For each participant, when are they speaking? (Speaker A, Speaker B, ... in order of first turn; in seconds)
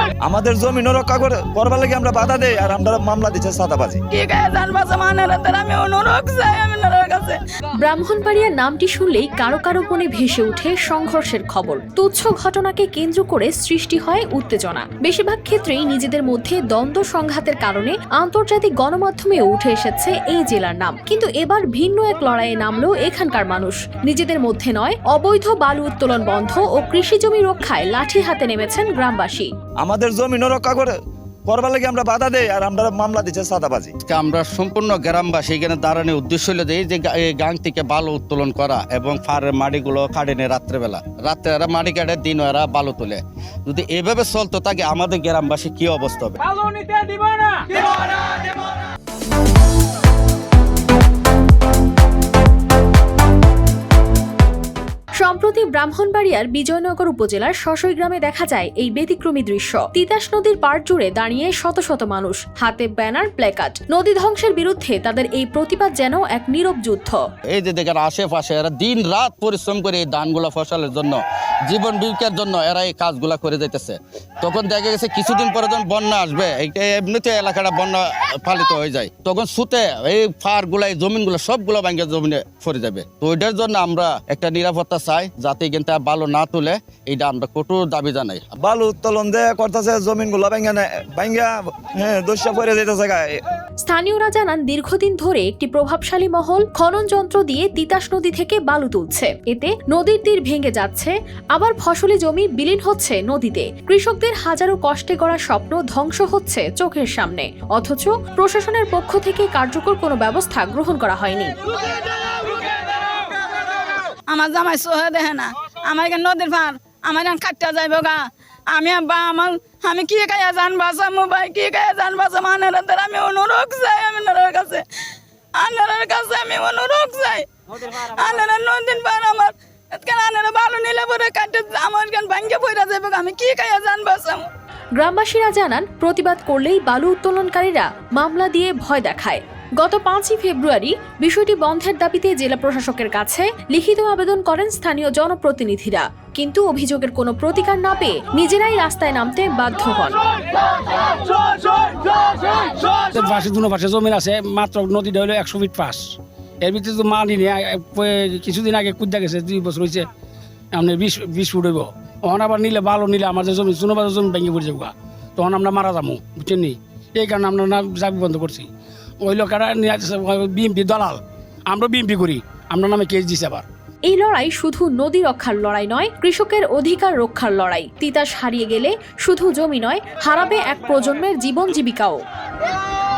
Speaker A: 0.2-4.0, 29.8-30.9, 31.5-33.9, 88.6-93.3
Speaker B: 4.1-7.4, 46.7-47.2, 112.4-112.6, 114.3-118.2, 118.7-124.8, 125.6-134.5
Speaker C: 7.8-29.5, 55.2-67.2, 93.8-111.5, 135.0-150.2, 174.1-182.2
Speaker D: 34.0-46.4, 67.5-88.5
Speaker E: 152.9-160.1, 160.7-168.7, 169.2-173.7